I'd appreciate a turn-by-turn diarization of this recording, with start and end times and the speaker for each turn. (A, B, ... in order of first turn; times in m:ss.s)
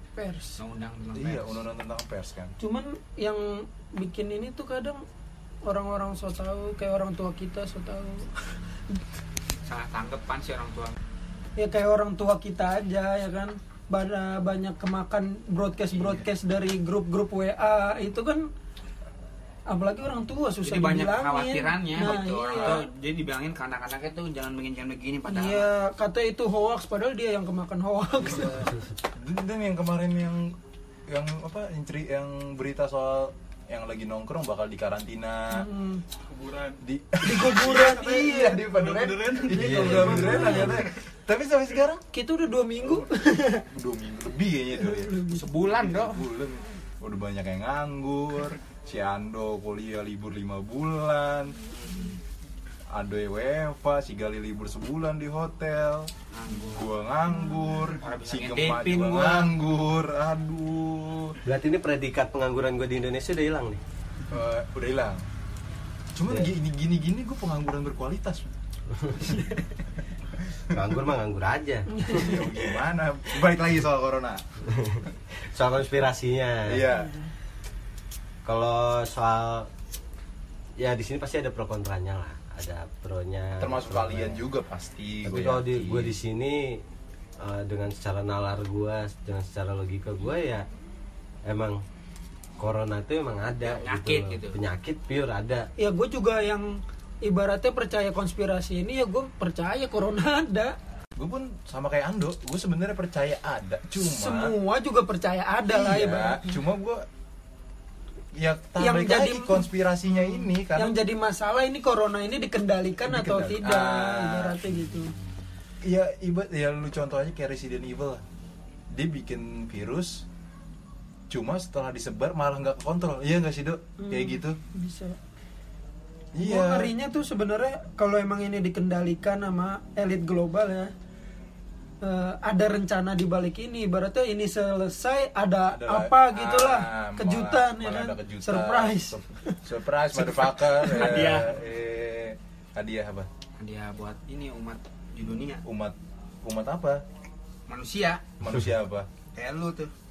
0:00.1-0:00.6 A
0:00.6-0:01.6 B
0:01.1-0:02.6 C
0:02.6-0:05.0 A
0:05.6-0:08.3 A
0:09.6-0:11.0 B
0:11.6-0:18.5 A
0:16.0-0:16.2 B
0:19.7-0:22.9 A
0:20.6-0:25.7 B
0:25.3-0:28.7 A
0:28.3-0:30.6 C
0:31.1-0:35.6 C
0:35.5-0:36.0 A
0:36.7-0:42.0 C
0:37.2-0:38.7 A
0:39.5-0:40.8 D
0:39.6-0:40.7 A
0:42.1-0:43.7 A
0:43.7-0:45.2 C
0:44.8-0:45.4 A
0:45.3-0:46.2 B
0:45.7-0:51.6 C
0:52.9-0:56.1 C
0:56.3-0:56.9 B
0:56.6-1:01.4 C
0:58.0-0:59.5 B
1:01.4-1:03.8 D
1:04.3-1:05.2 C
1:06.1-1:08.4 C
1:08.9-1:09.3 D
1:10.7-1:12.8 D
1:11.9-1:12.3 A
1:12.1-1:14.4 C
1:14.6-1:16.9 D
1:16.7-1:17.1 C
1:18.4-1:19.7 D
1:20.8-1:24.4 D
1:23.6-1:26.1 C
1:25.2-1:26.8 D
1:27.4-1:30.6 D
1:31.4-1:31.8 D
1:32.6-1:35.7 D
1:33.6-1:34.6 B
1:35.8-1:40.7 A
1:41.2-1:44.6 C
1:44.0-1:46.6 A
1:45.6-1:47.0 C
1:48.3-1:51.0 C
1:48.8-1:49.7 A
1:50.7-1:55.1 A
1:53.0-1:54.6 C
1:55.8-1:58.2 C
1:58.9-2:00.2 C
2:01.3-2:04.6 C
2:04.0-2:05.2 A
2:06.3-2:06.9 C
2:06.4-2:10.9 A
2:12.0-2:19.6 A
2:15.7-2:23.3 C
2:20.7-2:21.5 B
2:23.6-2:25.6 B
2:25.6-2:27.0 C
2:27.7-2:28.2 B
2:28.4-2:29.1 C
2:29.3-2:29.9 B